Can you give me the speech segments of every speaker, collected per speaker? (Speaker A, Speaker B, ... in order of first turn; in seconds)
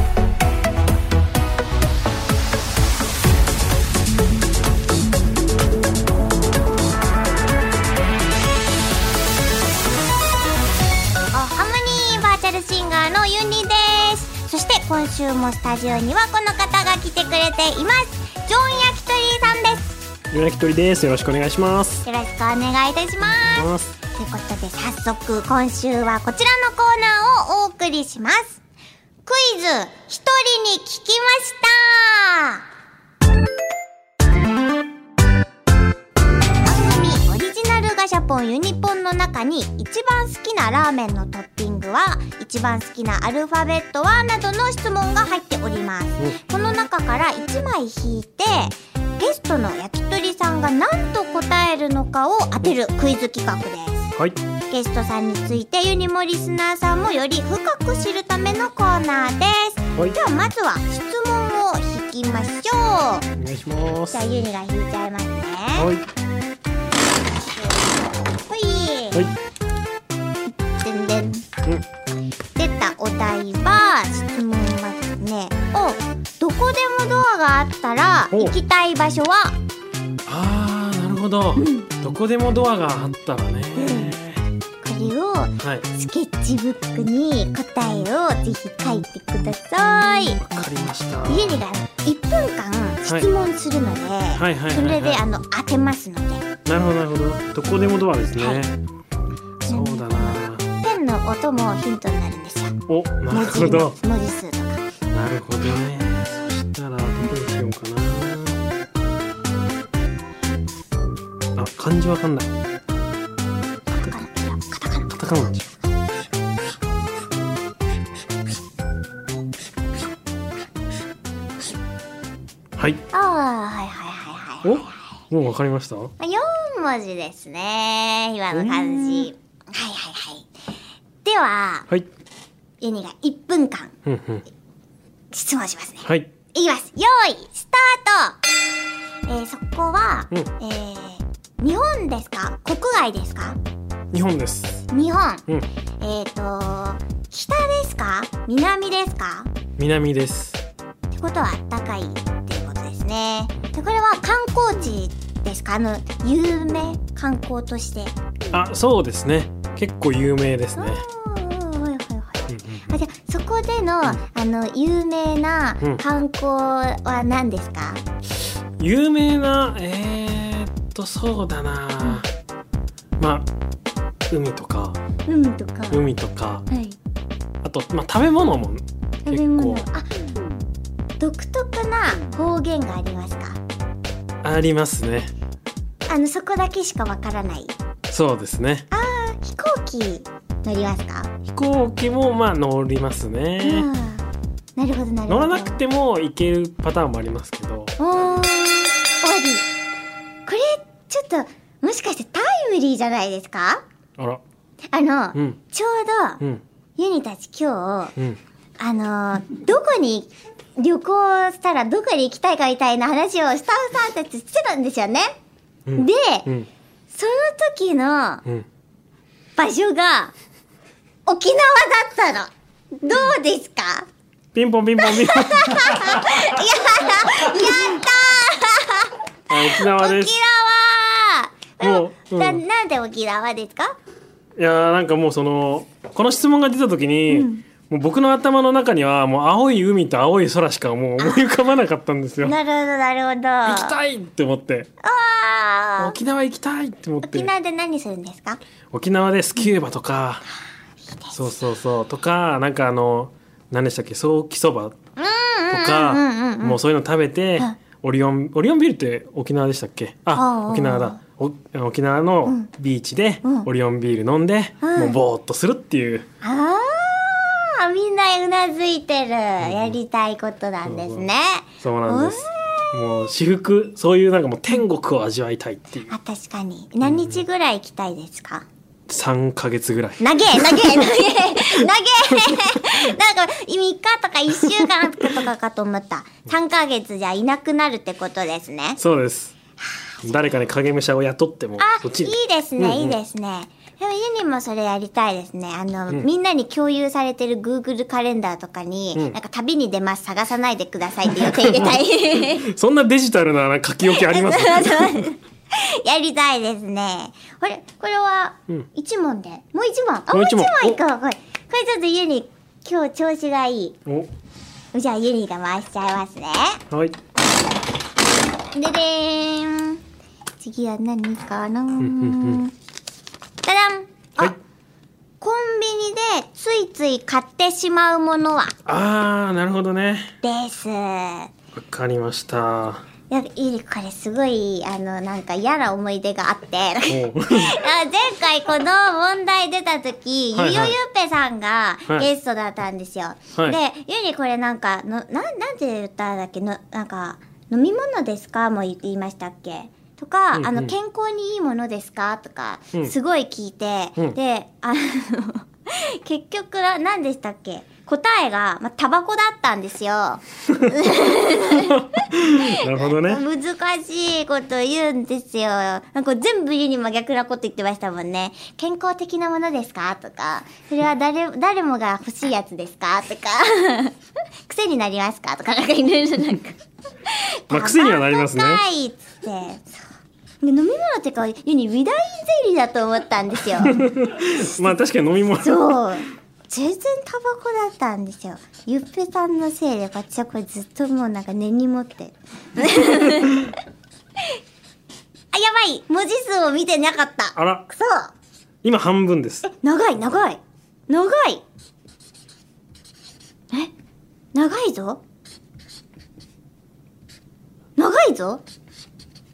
Speaker A: 11.3-20.0, 22.0-28.6, 29.2-32.6, 36.6-54.1, 54.7-63.3, 64.1-65.9, 67.5-69.2, 70.6-71.5, 72.5-79.5, 81.6-81.9, 83.8-84.1, 84.8-90.4, 91.3-96.5, 98.4-98.6, 99.6-102.8, 103.3-104.8, 113.9-115.2, 123.1-125.0, 126.2-130.5, 131.2-131.9, 132.8-133.9, 135.3-138.4, 139.3-143.6, 144.9-145.5, 146.0-149.5, 151.1-158.1, 160.8-168.0, 175.3-176.1, 176.7-176.9, 179.2-180.3, 181.2-183.6, 186.1-187.7, 188.9-191.3, 193.6-195.8, 198.0-199.7, 200.4-203.8, 204.9-206.4, 207.0-208.1, 208.8-215.3, 216.0-216.5, 217.1-218.4, 219.6-220.3, 221.2-224.1, 225.0-233.9, 237.3-237.6, 241.2-241.4, 242.4-243.9, 245.0-246.2, 247.2-248.6, 251.1-251.5, 255.2-256.8, 260.3-261.2, 264.8-265.2, 266.4-273.3, 276.1-278.6, 280.2-289.0, 289.9-290.5, 291.8-302.6, 304.1-314.0, 314.9-316.8, 318.7-320.0, 320.6-322.7, 323.6-324.5, 325.4-328.7, 330.4-331.5, 333.3-374.1, 374.6-380.0, 380.6-384.0, 385.6-393.7, 395.5-398.3, 399.6-401.6, 404.5-405.2, 408.0-408.6
Speaker B: 20.3-22.0, 23.5-23.9, 63.4-64.3, 65.8-66.0, 80.2-84.4, 85.6-85.9, 90.4-91.6, 94.3-95.2, 96.7-98.8, 99.6-100.6, 102.9-104.0, 105.1-108.6, 111.5-112.5, 115.1-115.6, 122.8-123.0, 124.6-126.1, 128.5-129.3, 134.0-134.4, 136.0-136.3, 144.1-144.8, 149.8-150.6, 158.5-161.0, 162.5-162.9, 168.8-172.3, 173.2-173.5, 174.3-175.0, 175.9-176.7, 177.6-179.8, 184.4-185.3, 188.1-188.9, 191.5-193.9, 195.3-197.9, 215.8-216.7, 224.5-226.5, 229.5-230.3, 231.8-232.6, 234.6-242.6, 243.6-244.9, 246.0-247.5, 248.9-250.4, 251.3-254.9, 255.7-266.2, 269.6-270.0, 270.8-271.3, 271.8-276.1, 277.0-277.4, 279.1-281.1, 289.0-289.5, 290.2-293.2, 301.4-305.3, 310.3-311.0, 316.9-317.2, 322.0-322.6, 328.9-330.3, 331.7-333.0, 337.1-337.8, 340.5-341.0, 350.5-350.9, 361.9-363.4, 377.7-378.8, 383.8-385.8, 397.5-397.9, 398.8-399.6